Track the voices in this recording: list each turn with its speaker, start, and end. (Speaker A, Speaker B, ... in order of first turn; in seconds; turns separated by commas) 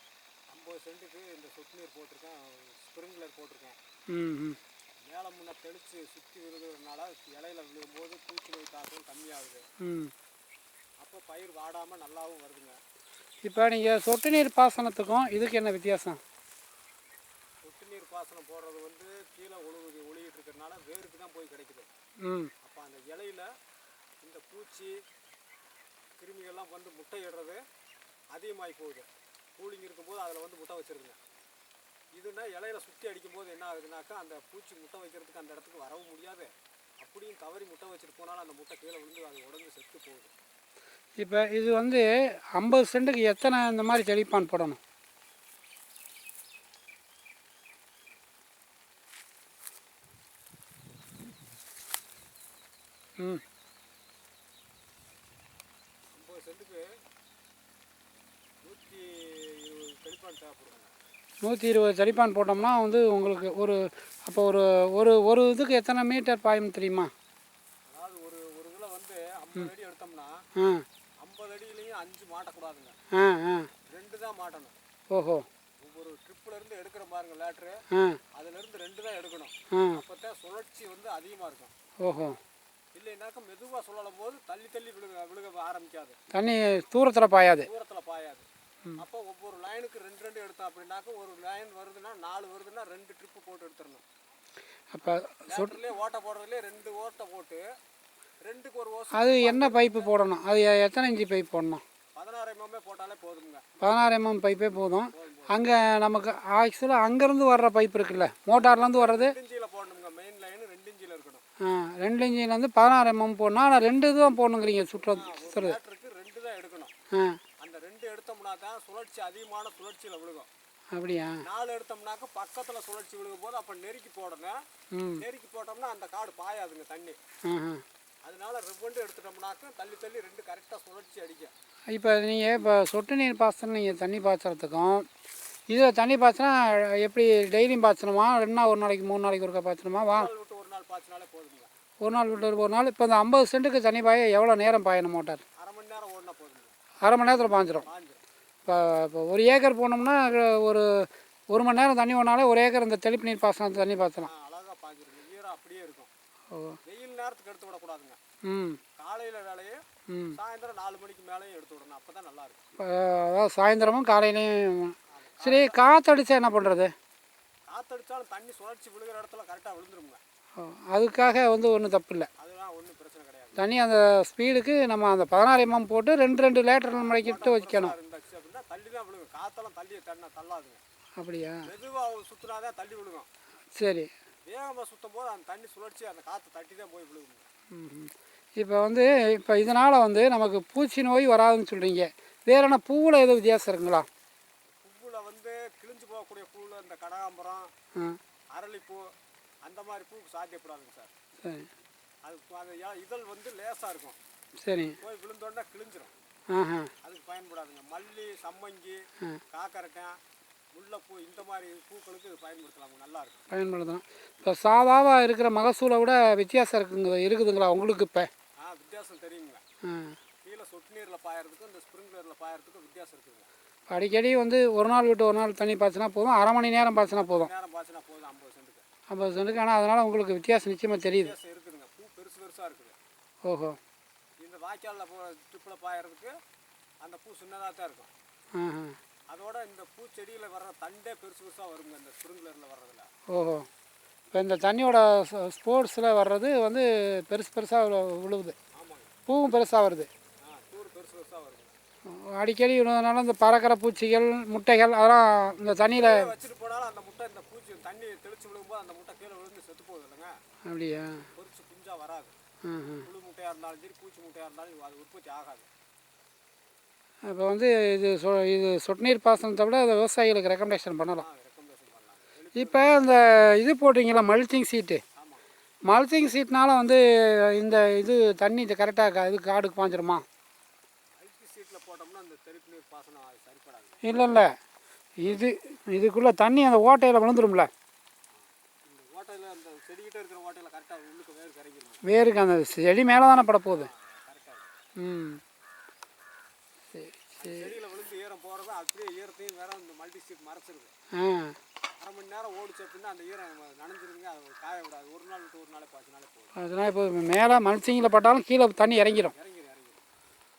Speaker A: 0.5-3.8, Speaker B: 4.1-4.6, Speaker A: 5.0-9.6, Speaker B: 9.8-10.1, Speaker A: 11.0-12.8, Speaker B: 13.4-16.2, Speaker A: 17.6-21.9, Speaker B: 22.2-22.5, Speaker A: 22.6-23.5, Speaker A: 24.2-25.0, Speaker A: 26.2-27.6, Speaker A: 28.3-31.2, Speaker A: 32.1-40.3, Speaker B: 41.2-44.8, Speaker A: 56.1-57.0, Speaker A: 58.6-60.9, Speaker B: 61.4-67.1, Speaker A: 67.9-70.4, Speaker B: 70.5-70.8, Speaker A: 71.2-73.0, Speaker B: 73.1-73.7, Speaker A: 73.8-74.8, Speaker B: 75.1-75.5, Speaker A: 75.8-81.7, Speaker B: 77.9-78.2, Speaker B: 79.7-80.0, Speaker B: 82.0-82.4, Speaker A: 82.9-86.2, Speaker B: 86.3-87.7, Speaker A: 87.6-88.5, Speaker A: 89.0-94.0, Speaker B: 94.9-95.8, Speaker A: 95.0-97.6, Speaker A: 98.4-100.2, Speaker B: 99.1-101.8, Speaker A: 102.1-103.6, Speaker B: 103.8-109.3, Speaker A: 105.1-105.6, Speaker A: 108.5-111.4, Speaker B: 111.6-115.8, Speaker A: 115.0-116.9, Speaker B: 117.1-117.4, Speaker A: 117.6-120.5, Speaker B: 120.9-121.4, Speaker A: 121.4-124.6, Speaker B: 124.9-125.2, Speaker A: 125.2-127.2, Speaker B: 127.5-127.8, Speaker A: 128.2-131.5, Speaker B: 131.9-135.1, Speaker B: 135.7-140.3, Speaker A: 140.0-141.7, Speaker B: 142.0-145.4, Speaker A: 145.6-148.2, Speaker B: 147.0-147.9, Speaker B: 148.7-154.3, Speaker A: 154.2-156.1, Speaker B: 156.5-156.8, Speaker A: 156.8-158.2, Speaker B: 158.4-158.8, Speaker A: 158.9-162.6, Speaker B: 160.1-160.4, Speaker B: 162.8-166.9, Speaker A: 165.1-165.8, Speaker A: 167.7-170.2, Speaker B: 170.6-172.3, Speaker A: 172.4-173.6, Speaker B: 173.6-177.9, Speaker A: 176.9-180.8, Speaker B: 181.2-181.6, Speaker A: 181.6-183.3, Speaker B: 183.8-184.1, Speaker A: 184.4-187.5, Speaker B: 187.7-194.1, Speaker A: 194.8-197.7, Speaker A: 198.5-201.1, Speaker B: 201.4-201.7, Speaker A: 202.2-204.2, Speaker B: 204.6-205.0, Speaker A: 205.0-206.1, Speaker B: 206.5-206.9, Speaker A: 207.0-210.2, Speaker A: 210.7-213.4, Speaker B: 213.5-218.3, Speaker A: 218.6-219.6, Speaker B: 219.8-220.2, Speaker A: 220.4-223.5, Speaker B: 223.9-227.5, Speaker A: 227.1-228.8, Speaker B: 229.1-231.3, Speaker A: 231.0-232.9, Speaker B: 233.4-233.8, Speaker A: 234.4-236.4, Speaker A: 237.0-238.1, Speaker B: 238.5-239.0, Speaker A: 239.3-243.1, Speaker B: 243.3-243.7, Speaker B: 244.3-248.6, Speaker A: 248.7-249.1, Speaker B: 249.3-250.1, Speaker A: 250.4-251.7, Speaker B: 252.1-256.3, Speaker A: 255.9-260.3, Speaker B: 260.6-261.3, Speaker A: 261.3-262.4, Speaker B: 262.6-263.1, Speaker A: 263.0-265.7, Speaker B: 267.2-271.2, Speaker A: 271.1-273.3, Speaker B: 272.5-275.0, Speaker A: 275.1-275.4, Speaker B: 275.8-280.2, Speaker A: 281.1-284.0, Speaker B: 284.0-284.6, Speaker B: 285.2-287.7, Speaker A: 288.3-292.0, Speaker B: 292.0-293.9, Speaker A: 293.7-294.7, Speaker B: 295.0-295.4, Speaker B: 296.9-297.7, Speaker A: 297.4-300.9, Speaker B: 301.1-301.6, Speaker A: 302.0-306.5, Speaker B: 306.6-309.3, Speaker A: 309.3-310.0